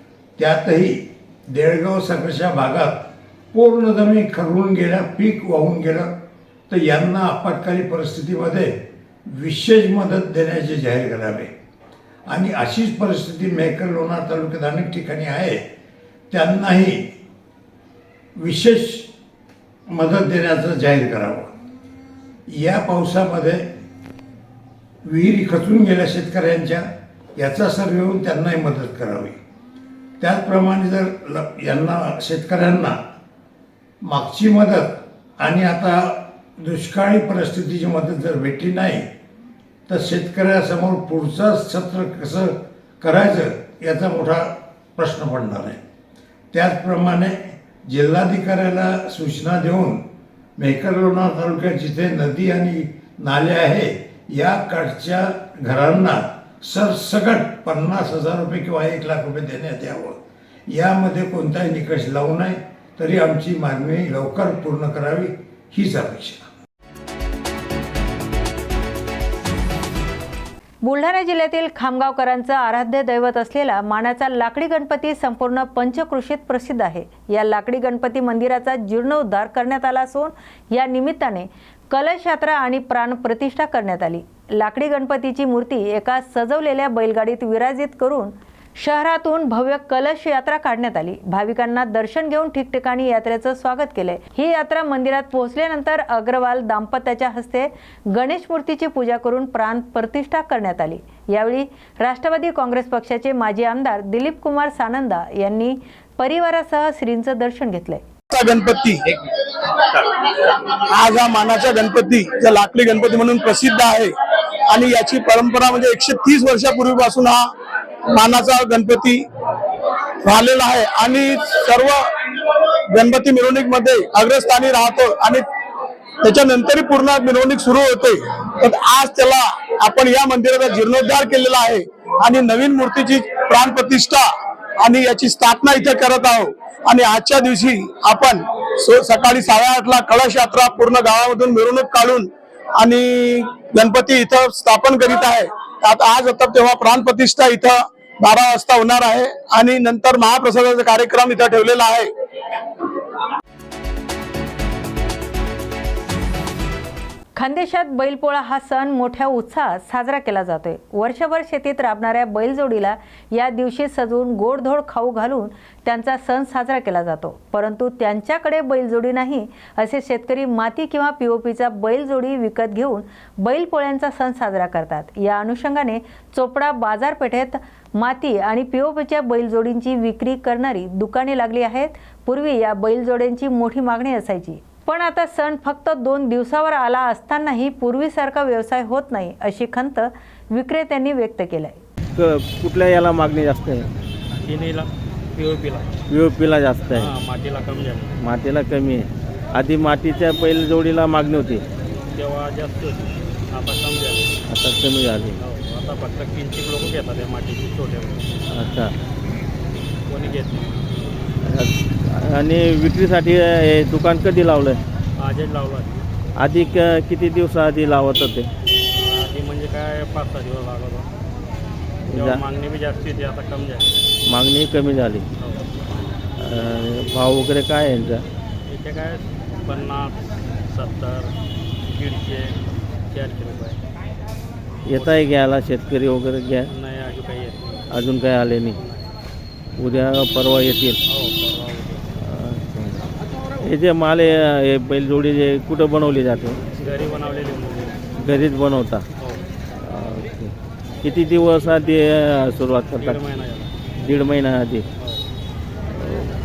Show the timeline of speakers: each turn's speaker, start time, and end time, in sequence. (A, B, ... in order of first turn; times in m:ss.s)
0:00.4-0:06.1 A
0:06.7-0:08.7 A
0:09.3-0:11.5 A
0:12.3-0:15.6 A
0:16.3-0:17.1 A
0:18.4-0:19.1 A
0:19.9-0:21.5 A
0:22.5-0:23.6 A
0:25.0-0:29.4 A
0:30.2-0:33.0 A
0:34.0-0:39.0 A
0:39.9-0:45.8 A
0:46.5-0:50.0 A
0:50.6-1:00.2 A
1:00.7-1:06.4 A
1:10.8-1:48.0 B
1:48.3-1:49.0 C
1:50.5-1:54.1 C
1:54.7-1:57.5 C
1:58.1-1:59.2 C
2:00.2-2:02.0 C
2:02.9-2:05.4 C
2:06.2-2:14.3 C
2:14.8-2:22.3 C
2:22.8-2:32.1 C
2:37.4-3:11.8 B
3:12.2-3:13.9 D
3:14.4-3:15.9 E
3:16.1-3:17.1 D
3:16.9-3:18.2 E
3:18.2-3:21.6 D
3:22.1-3:24.3 E
3:24.5-3:25.4 D
3:25.4-3:28.3 E
3:28.5-3:28.9 D
3:30.1-3:30.9 E
3:31.4-3:34.8 D
3:35.2-3:36.0 E
3:36.4-3:38.5 D
3:39.0-3:41.1 E
3:42.1-3:42.4 D
3:42.1-3:44.0 E
3:44.3-3:45.2 D
3:45.4-3:45.6 E
3:46.4-3:48.2 D
3:48.7-3:51.3 E
3:51.9-3:53.8 E
3:54.9-3:56.7 D
3:54.9-3:55.3 E
3:56.7-3:57.9 E
3:57.9-3:58.8 D
3:59.8-4:01.0 D
4:01.0-4:02.1 E
4:02.2-4:03.0 D
4:03.6-4:06.6 D
4:06.7-4:08.0 E
4:08.2-4:09.0 D
4:09.8-4:10.5 D
4:11.0-4:13.2 D
4:13.0-4:13.7 E
4:14.0-4:14.8 D